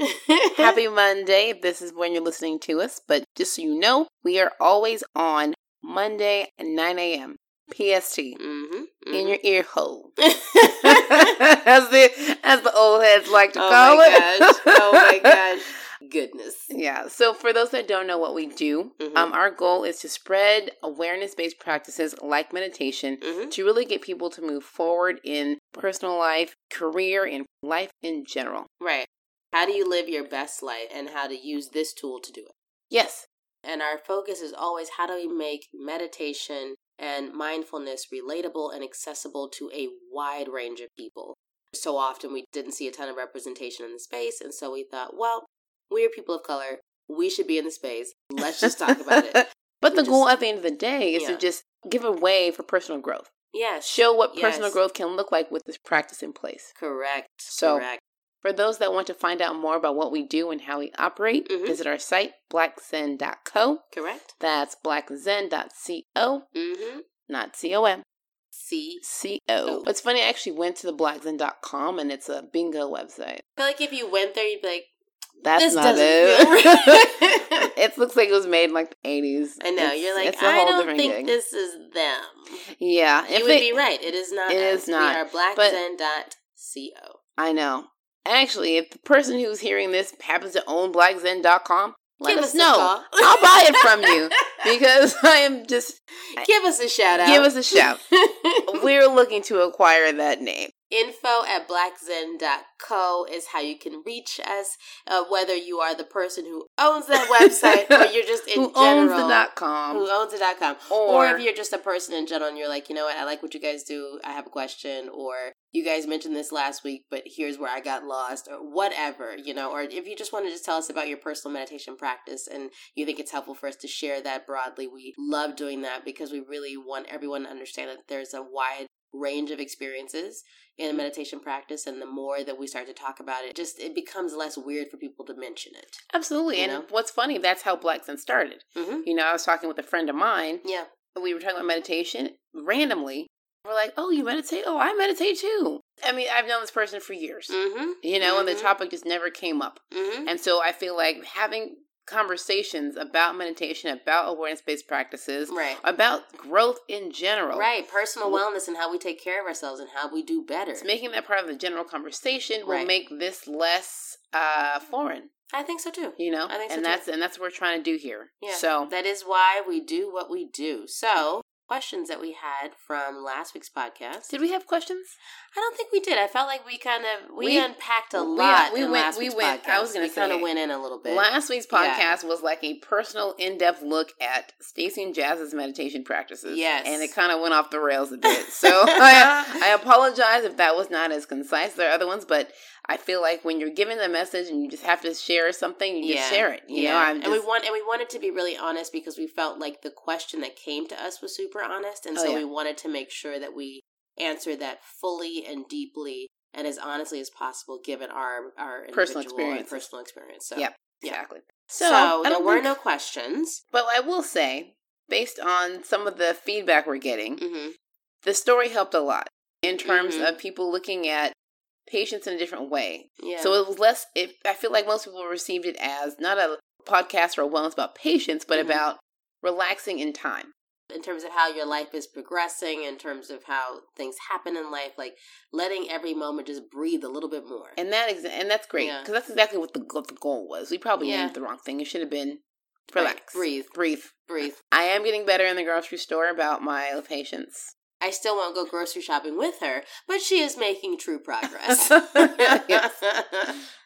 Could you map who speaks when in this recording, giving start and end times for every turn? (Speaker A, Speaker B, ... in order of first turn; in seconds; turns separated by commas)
Speaker A: 0.3-0.7, Speaker B: 0.6-8.4, Speaker A: 8.4-9.4, Speaker B: 9.1-10.2, Speaker A: 10.2-11.3, Speaker B: 10.8-15.2, Speaker A: 13.5-16.7, Speaker B: 16.7-28.7, Speaker A: 19.0-19.3, Speaker A: 23.2-23.5, Speaker A: 28.8-32.5, Speaker B: 32.9-33.3, Speaker A: 33.6-50.3, Speaker B: 48.6-53.3, Speaker A: 51.1-51.4, Speaker A: 53.5-54.8, Speaker B: 53.9-56.7, Speaker A: 56.8-58.0, Speaker B: 57.5-57.9, Speaker B: 58.4-63.8, Speaker A: 61.5-61.8, Speaker A: 63.9-64.3, Speaker B: 64.4-66.5, Speaker A: 66.5-67.0, Speaker B: 67.3-68.0, Speaker A: 68.5-69.0, Speaker B: 69.0-73.4, Speaker A: 73.6-74.9, Speaker B: 75.4-81.3, Speaker A: 75.5-77.6, Speaker A: 79.6-82.6, Speaker B: 82.8-83.8, Speaker A: 83.3-87.2, Speaker B: 84.5-85.8, Speaker B: 87.4-96.5, Speaker A: 92.2-94.2, Speaker A: 96.3-98.8, Speaker B: 97.1-98.0, Speaker B: 98.7-100.7, Speaker A: 100.9-136.0, Speaker B: 107.4-110.0, Speaker B: 110.9-111.4, Speaker B: 136.1-140.6, Speaker A: 136.5-136.9, Speaker A: 138.8-139.1, Speaker A: 140.6-140.9, Speaker B: 141.1-157.7, Speaker A: 147.5-148.7, Speaker A: 149.9-150.3, Speaker A: 155.5-155.8, Speaker A: 157.5-160.9, Speaker B: 160.8-165.3, Speaker A: 162.6-162.9, Speaker A: 165.5-167.0, Speaker B: 166.2-168.9, Speaker A: 168.4-174.3, Speaker B: 174.3-175.1, Speaker A: 175.5-182.2, Speaker B: 177.4-180.5, Speaker B: 181.0-197.4, Speaker A: 186.4-187.1, Speaker A: 188.6-189.3, Speaker A: 196.0-213.6, Speaker B: 202.1-202.4, Speaker B: 208.9-209.8, Speaker B: 210.5-212.7, Speaker B: 213.7-217.4, Speaker A: 217.4-217.8, Speaker B: 218.2-221.3, Speaker A: 219.7-220.3, Speaker B: 221.9-230.5, Speaker A: 223.2-223.6, Speaker A: 228.5-228.8, Speaker A: 230.9-237.8, Speaker B: 237.8-242.4, Speaker A: 238.8-239.1, Speaker A: 241.0-241.4, Speaker A: 242.9-243.7, Speaker B: 242.9-247.7, Speaker A: 244.2-244.6, Speaker A: 248.0-253.6, Speaker B: 251.9-252.8